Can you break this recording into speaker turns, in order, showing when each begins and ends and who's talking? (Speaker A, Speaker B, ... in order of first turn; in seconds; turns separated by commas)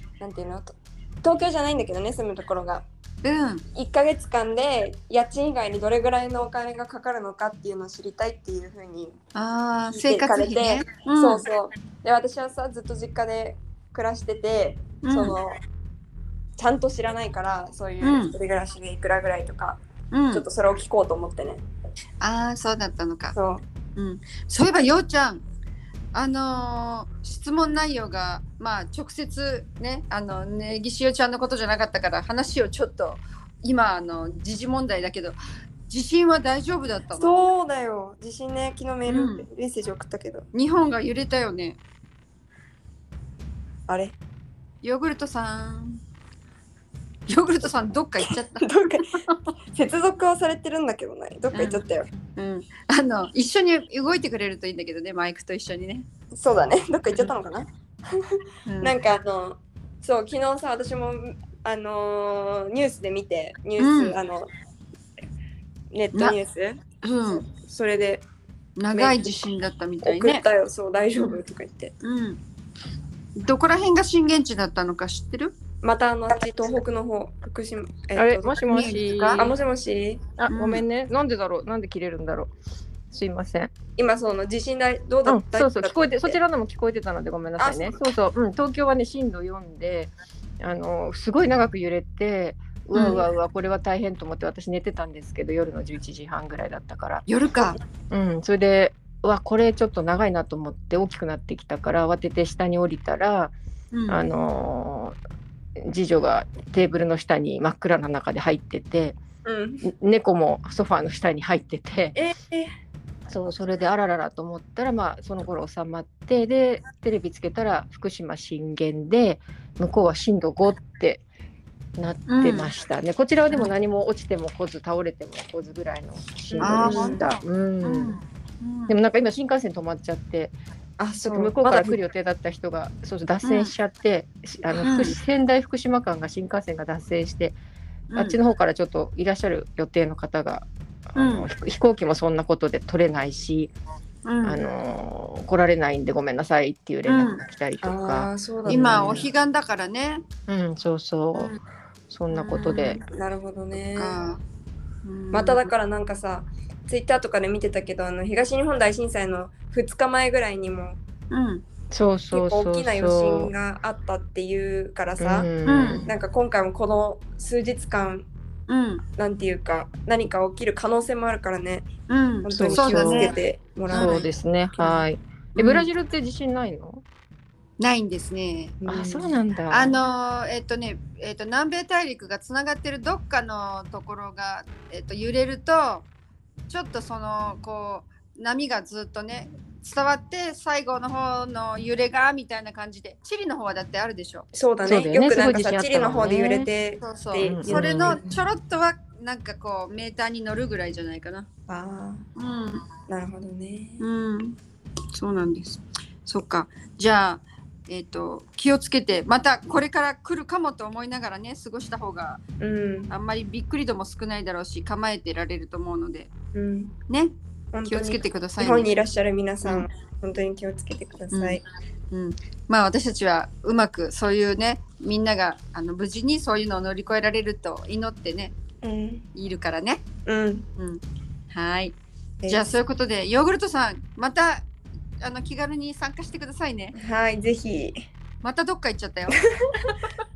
Speaker A: 0.2-2.9, Speaker B: 3.2-3.6, Speaker A: 3.8-9.2, Speaker B: 9.3-11.5, Speaker A: 9.9-15.6, Speaker B: 15.0-15.4, Speaker A: 16.6-21.6, Speaker B: 18.0-18.4, Speaker B: 20.1-20.5, Speaker B: 22.2-23.4, Speaker A: 23.3-23.6, Speaker B: 24.0-25.4, Speaker B: 26.1-35.4, Speaker B: 35.9-37.5, Speaker A: 37.2-40.5, Speaker B: 39.1-39.5, Speaker B: 40.5-41.8, Speaker A: 43.9-44.2, Speaker B: 44.8-46.0, Speaker B: 47.3-49.4, Speaker A: 48.2-49.2, Speaker A: 49.7-52.1, Speaker B: 51.5-51.8, Speaker B: 52.4-56.1, Speaker A: 56.3-64.5, Speaker B: 58.7-59.0, Speaker B: 63.8-64.2, Speaker A: 65.9-68.3, Speaker B: 67.0-67.5, Speaker B: 68.8-70.4, Speaker A: 68.9-69.4, Speaker A: 70.0-71.9, Speaker B: 72.0-72.4, Speaker B: 73.4-75.5, Speaker A: 75.8-80.3, Speaker C: 78.2-79.5, Speaker B: 78.7-79.5, Speaker C: 80.4-82.5, Speaker B: 80.5-80.8, Speaker C: 83.1-83.7, Speaker A: 84.0-86.4, Speaker C: 85.2-97.3, Speaker A: 87.6-88.0, Speaker A: 92.9-93.2, Speaker B: 92.9-93.3, Speaker B: 97.3-97.8, Speaker C: 98.1-103.5, Speaker B: 103.9-104.3, Speaker C: 104.1-105.2, Speaker C: 105.8-109.2, Speaker A: 109.5-109.9, Speaker C: 109.8-112.2, Speaker A: 112.2-112.7, Speaker C: 113.3-121.2, Speaker C: 122.0-128.2, Speaker B: 122.3-122.7, Speaker A: 126.5-127.2, Speaker B: 126.6-129.0, Speaker C: 128.9-130.6, Speaker A: 131.0-132.0, Speaker C: 131.2-137.6, Speaker B: 133.4-133.7, Speaker B: 134.8-135.2, Speaker B: 138.1-138.4, Speaker C: 138.2-143.7, Speaker B: 141.2-141.5, Speaker B: 144.2-144.6, Speaker C: 144.4-149.3, Speaker B: 147.1-147.4, Speaker A: 147.8-149.0, Speaker B: 148.7-150.2, Speaker C: 150.5-153.0, Speaker B: 152.3-153.0, Speaker A: 153.0-154.2, Speaker B: 153.7-154.4, Speaker B: 155.0-155.7, Speaker A: 155.3-161.0, Speaker B: 161.3-161.6, Speaker C: 161.9-163.5, Speaker A: 162.3-168.3, Speaker C: 165.2-166.1, Speaker B: 165.7-166.1, Speaker B: 168.7-169.0, Speaker A: 169.2-171.9, Speaker B: 172.1-173.3, Speaker A: 172.4-175.0, Speaker C: 172.5-173.3, Speaker C: 173.9-177.0, Speaker B: 173.9-174.3, Speaker B: 175.6-175.9, Speaker B: 177.8-178.8, Speaker A: 178.8-179.3, Speaker C: 178.8-180.0, Speaker B: 179.7-186.1, Speaker B: 186.7-194.4, Speaker A: 194.5-198.2, Speaker C: 194.8-196.7, Speaker B: 197.0-201.5, Speaker C: 197.4-198.4, Speaker A: 201.7-202.2, Speaker B: 202.4-202.8, Speaker A: 203.1-204.1, Speaker B: 204.0-204.6, Speaker B: 205.1-212.4, Speaker A: 212.6-213.1, Speaker B: 213.1-216.3, Speaker A: 216.5-216.9, Speaker A: 217.7-221.6, Speaker B: 217.9-218.9, Speaker B: 221.3-221.6, Speaker B: 222.1-228.5, Speaker A: 228.8-229.3, Speaker B: 229.3-230.0, Speaker A: 230.3-230.7, Speaker B: 230.8-231.9, Speaker A: 232.4-232.7, Speaker B: 232.5-234.7, Speaker B: 235.2-236.9, Speaker A: 237.0-238.0, Speaker B: 238.4-239.4